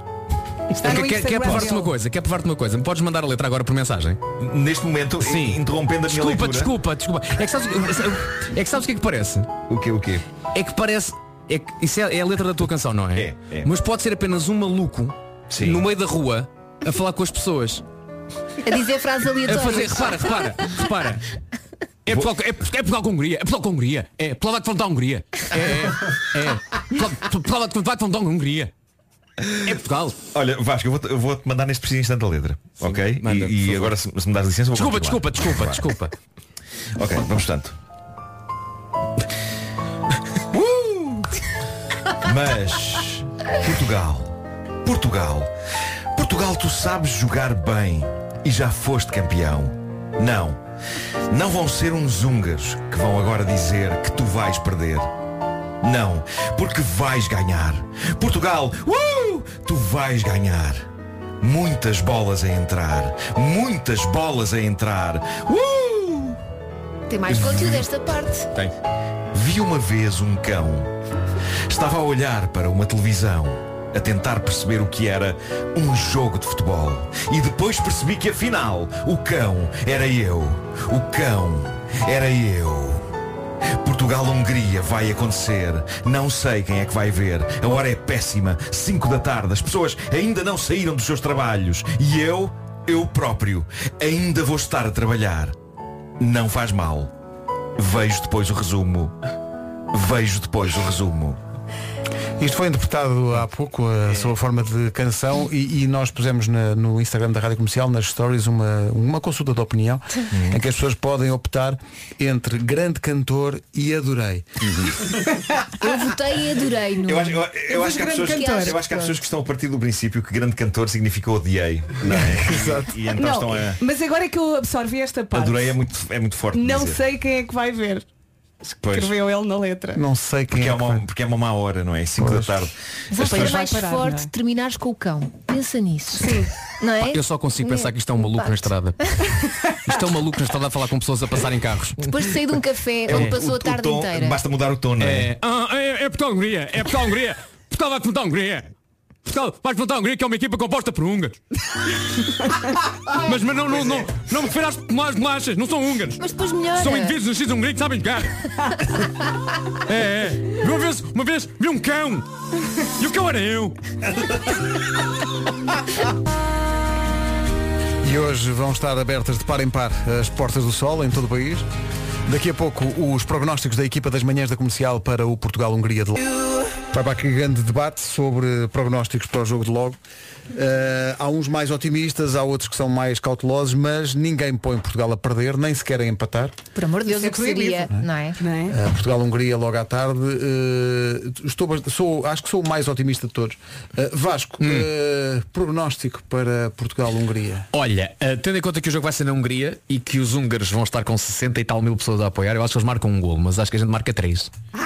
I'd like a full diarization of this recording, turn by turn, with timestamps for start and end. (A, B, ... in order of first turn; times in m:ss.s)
0:00.7-0:04.2 A
0:00.8-0:01.9 B
0:04.4-0:06.7 C
0:05.2-0:09.5 A
0:09.7-0:10.2 C
0:10.5-0:17.8 A
0:13.2-0:13.7 C
0:15.5-0:15.8 C
0:18.6-0:20.3 D
0:19.4-0:21.2 A
0:22.1-0:28.7 A
0:22.1-0:22.3 C
0:29.6-0:30.2 A
0:30.3-0:35.9 C
0:32.8-0:34.0 A
0:34.8-0:36.1 A
0:37.0-0:37.8 C
0:40.5-0:41.3 C
0:42.2-0:45.5 C
0:46.2-0:50.6 C
0:51.3-0:55.1 C
0:55.8-1:00.9 C
1:01.4-1:06.4 C
1:07.1-1:08.5 D
1:07.3-1:07.9 C
1:09.3-1:10.9 C
1:11.7-1:23.1 C
1:23.7-1:35.6 C
1:36.2-1:37.1 C
1:37.8-1:39.1 C
1:39.9-1:41.4 C
1:42.4-1:54.6 E
1:50.3-1:50.6 C
1:55.8-1:57.5 D
1:57.0-2:03.8 C
1:57.7-1:58.8 B
1:58.2-1:59.2 D
2:02.0-2:02.9 E
2:03.2-2:05.8 B
2:05.3-2:07.0 C
2:06.5-2:08.0 B
2:08.8-2:09.2 C
2:08.8-2:10.0 B
2:10.0-2:11.0 E
2:10.5-2:13.7 C
2:12.2-2:12.6 E
2:13.1-2:19.3 D
2:13.2-2:14.3 B
2:16.2-2:16.5 B
2:17.0-2:19.1 A
2:19.8-2:22.1 A
2:22.0-2:24.4 D
2:23.1-2:25.4 C
2:23.1-2:23.4 A
2:25.0-2:28.7 A
2:29.3-2:31.3 A
2:33.1-2:36.2 A
2:36.2-2:37.2 D
2:36.8-2:38.7 A
2:39.9-2:42.2 A
2:43.0-2:43.7 A
2:48.0-2:51.7 E
2:52.3-2:56.4 E
2:56.9-3:00.0 E
3:00.5-3:06.6 E
3:06.8-3:08.4 D
3:07.1-3:08.8 B
3:08.7-3:17.7 E
3:14.6-3:14.9 A
3:17.7-3:24.5 A